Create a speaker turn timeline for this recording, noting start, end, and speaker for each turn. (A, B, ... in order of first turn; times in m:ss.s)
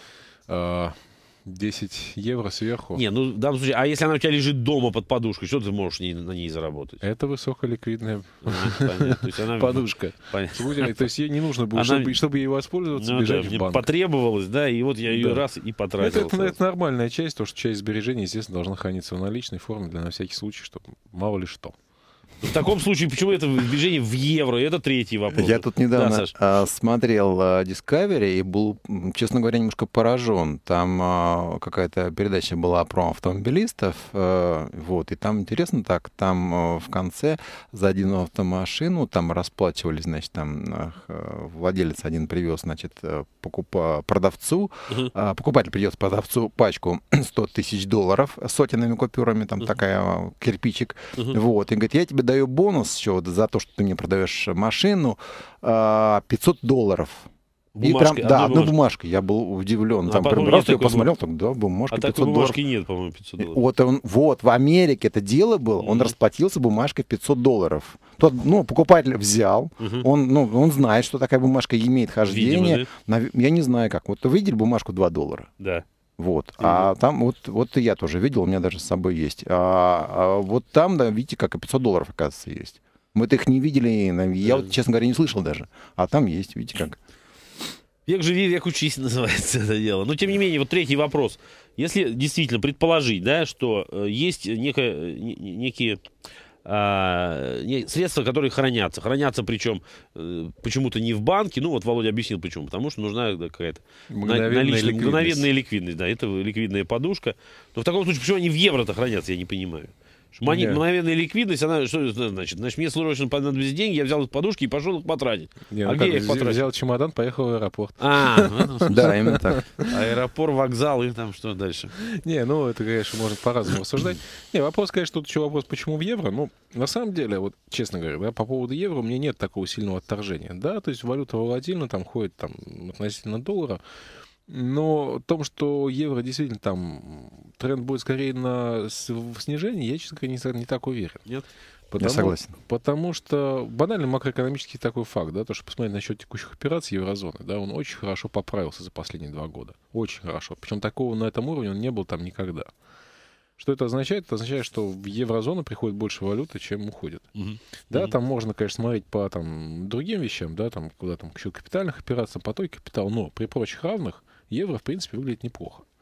0:00.5-0:03.0 A
0:02.9-0:07.0 B
0:07.0-0:13.9 A
0:08.4-0:11.0 B
0:11.7-0:12.2 B
0:13.0-0:16.6 B
0:15.1-0:15.4 A
0:16.0-0:21.8 A
0:22.4-0:26.3 B
0:25.3-0:57.3 C
0:57.7-0:58.7 B
0:57.8-1:02.6 C
1:00.0-1:01.1 B
1:01.9-1:03.6 B
1:03.4-1:15.5 C
1:05.8-1:06.1 B
1:09.8-1:10.1 B
1:12.2-1:12.9 B
1:15.6-1:15.8 B
1:16.2-1:27.0 C
1:16.6-1:16.9 B
1:24.4-1:24.7 B
1:28.0-1:36.0 B
1:36.6-1:56.6 B
1:44.1-1:45.4 A
1:50.5-1:50.8 A
1:55.7-1:59.9 A
1:58.0-1:59.1 B
1:58.8-1:59.6 C
1:59.7-2:01.9 B
2:02.0-2:13.8 A
2:14.5-2:21.2 A
2:21.9-2:32.7 A
2:22.0-2:22.5 C
2:33.6-2:37.3 A
2:37.4-2:38.1 B
2:37.9-2:45.8 A